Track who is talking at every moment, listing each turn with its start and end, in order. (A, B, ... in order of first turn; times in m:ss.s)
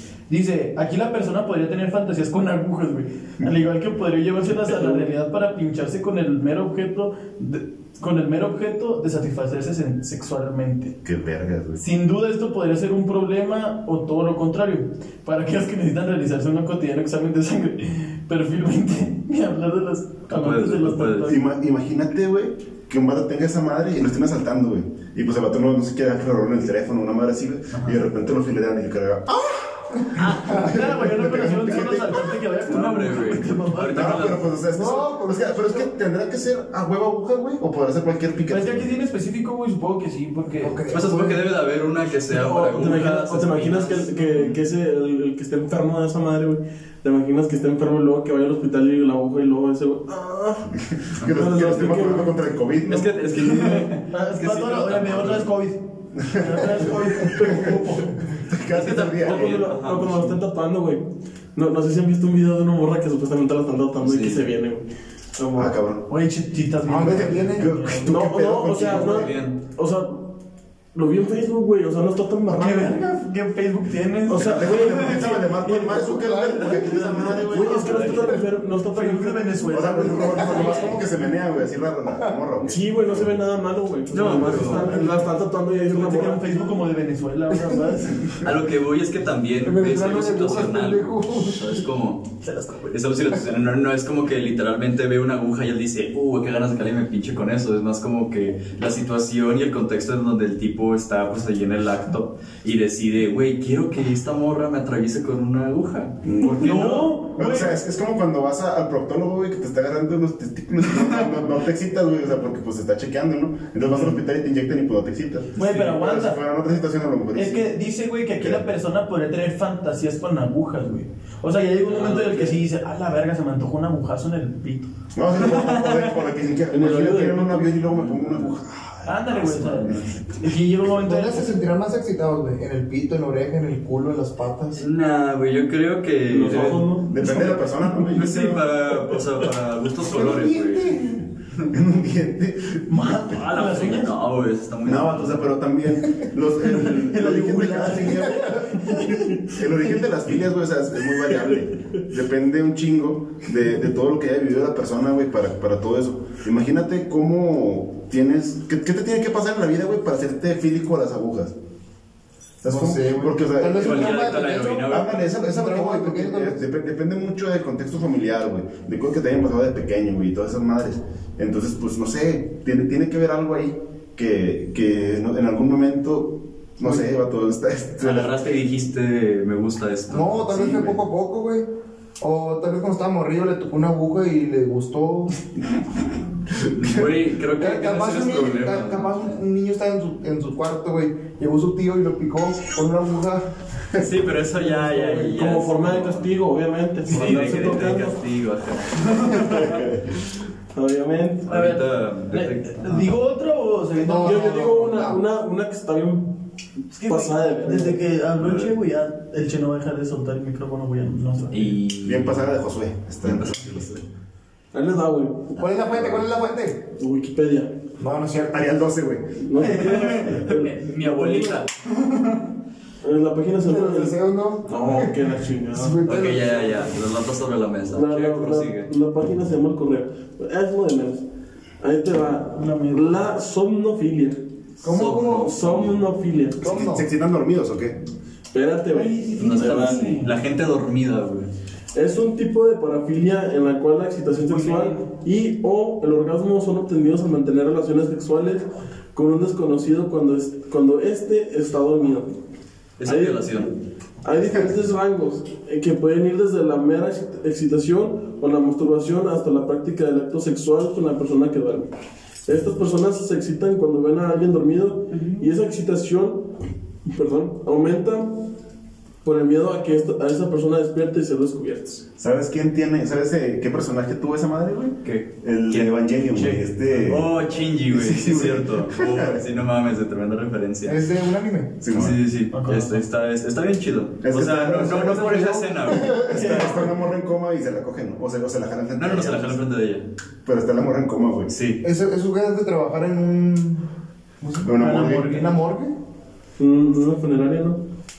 0:00.3-0:10.9 A
0:11.0-0:11.8 B
0:11.8-0:21.4 A
0:20.3-0:21.4 C
0:21.2-0:32.4 B
0:27.7-0:28.0 C
0:30.0-0:31.3 D
0:30.2-0:34.4 A
0:32.6-0:34.4 C
0:33.9-0:38.9 B
0:34.7-0:35.9 D
0:38.5-0:40.8 A
0:40.6-0:41.4 D
0:40.9-0:44.6 C
0:42.3-0:52.4 E
0:50.9-0:53.2 B
0:52.9-0:55.5 C
0:53.4-0:59.3 A
0:56.2-0:56.6 B
0:57.3-0:57.7 B
0:58.4-0:59.5 B
0:59.1-1:05.8 E
0:59.2-1:00.4 C
1:04.0-1:04.5 C
1:05.6-1:06.0 B
1:06.1-1:08.2 A
1:06.8-1:07.7 D
1:07.0-1:09.3 B
1:08.0-1:10.3 E
1:08.7-1:09.6 C
1:10.9-1:13.0 E
1:12.5-1:15.5 A
1:14.3-1:15.8 E
1:14.4-1:17.9 B
1:14.8-1:15.3 C
1:15.8-1:17.3 D
1:16.3-1:21.0 A
1:17.4-1:20.8 E
1:17.8-1:18.4 C
1:19.7-1:23.3 B
1:20.4-1:20.8 D
1:22.6-1:26.6 E
1:24.1-1:25.0 C
1:24.9-1:25.2 A
1:25.9-1:28.4 A
1:28.4-1:32.3 C
1:29.6-1:31.8 D
1:32.4-1:32.9 A
1:32.9-1:47.1 C
1:46.2-1:46.8 B
1:46.4-1:47.8 A
1:47.3-1:57.7 B
1:55.6-1:56.4 A
1:57.3-2:04.9 A
1:58.4-1:58.6 B
2:01.9-2:02.6 C
2:05.1-2:10.3 B
2:05.4-2:06.1 C
2:06.7-2:07.7 E
2:07.9-2:08.5 C
2:09.0-2:11.5 A
2:09.6-2:10.1 C
2:11.0-2:14.8 D
2:14.8-2:17.6 C
2:16.3-2:17.1 E
2:17.1-2:18.4 B
2:17.2-2:18.6 A
2:18.1-2:20.9 C
2:20.0-2:21.2 D
2:21.7-2:23.1 B
2:22.9-2:24.1 A
2:23.3-2:25.5 C
2:24.8-2:28.6 B
2:26.6-2:29.4 A
2:28.2-2:29.0 D
2:29.5-2:41.5 B
2:42.6-2:58.4 B
2:42.6-2:46.6 D
2:43.7-2:45.2 C
2:58.0-3:00.8 C
3:00.1-3:01.7 D
3:00.5-3:01.0 B
3:02.2-3:05.4 D
3:06.6-3:09.2 C
3:07.6-3:13.5 D
3:13.9-3:16.3 C
3:14.5-3:15.2 D
3:15.2-3:18.2 E
3:17.1-3:19.8 C
3:19.5-3:20.3 B
3:20.7-3:21.5 E
3:21.4-3:25.0 A
3:21.5-3:23.2 C
3:23.9-3:25.2 D
3:24.2-3:26.4 E
3:26.9-3:31.7 A
3:27.0-3:28.0 E
3:28.4-3:28.7 C
3:31.5-3:32.5 C
3:32.0-3:33.6 B
3:33.2-3:34.0 C
3:34.7-3:35.6 E
3:35.6-3:36.8 D
3:35.9-3:36.2 B
3:36.9-3:37.7 E
3:38.0-3:38.8 D
3:38.5-3:39.4 B
3:39.4-3:41.6 E
3:39.6-3:42.4 C
3:39.6-3:40.4 A
3:43.0-3:46.0 E
3:43.6-3:46.8 D
3:46.0-3:48.9 C
3:47.9-3:51.2 E
3:51.8-3:54.4 E
3:52.5-3:53.3 A
3:54.8-3:55.5 D
3:54.8-3:56.0 C
3:55.2-3:56.7 E
3:56.6-3:57.1 D
3:56.6-3:58.0 B
3:58.5-4:00.1 E
3:58.9-4:00.3 A
3:59.4-4:01.5 C
4:01.9-4:12.3 E
4:04.4-4:05.1 A
4:13.0-4:13.7 C
4:13.0-4:13.7 E
4:14.2-4:21.9 E
4:22.4-4:26.5 E
4:25.1-4:25.5 A
4:27.0-4:28.4 E
4:29.2-4:32.0 E
4:32.2-4:37.3 B
4:35.0-4:41.0 C
4:37.9-4:39.4 B
4:40.8-4:41.8 D
4:41.8-4:42.2 B
4:41.9-4:46.6 C
4:42.5-4:43.0 A
4:44.2-4:45.3 B
4:44.6-4:46.9 D
4:46.0-4:49.6 B
4:46.3-4:46.7 A
4:48.9-4:50.0 C
4:50.4-4:51.5 B
4:51.5-4:51.8 C
4:51.8-4:53.8 D
4:54.4-4:55.9 D
4:54.6-4:55.3 B
4:54.8-4:55.6 A
4:56.6-4:57.8 E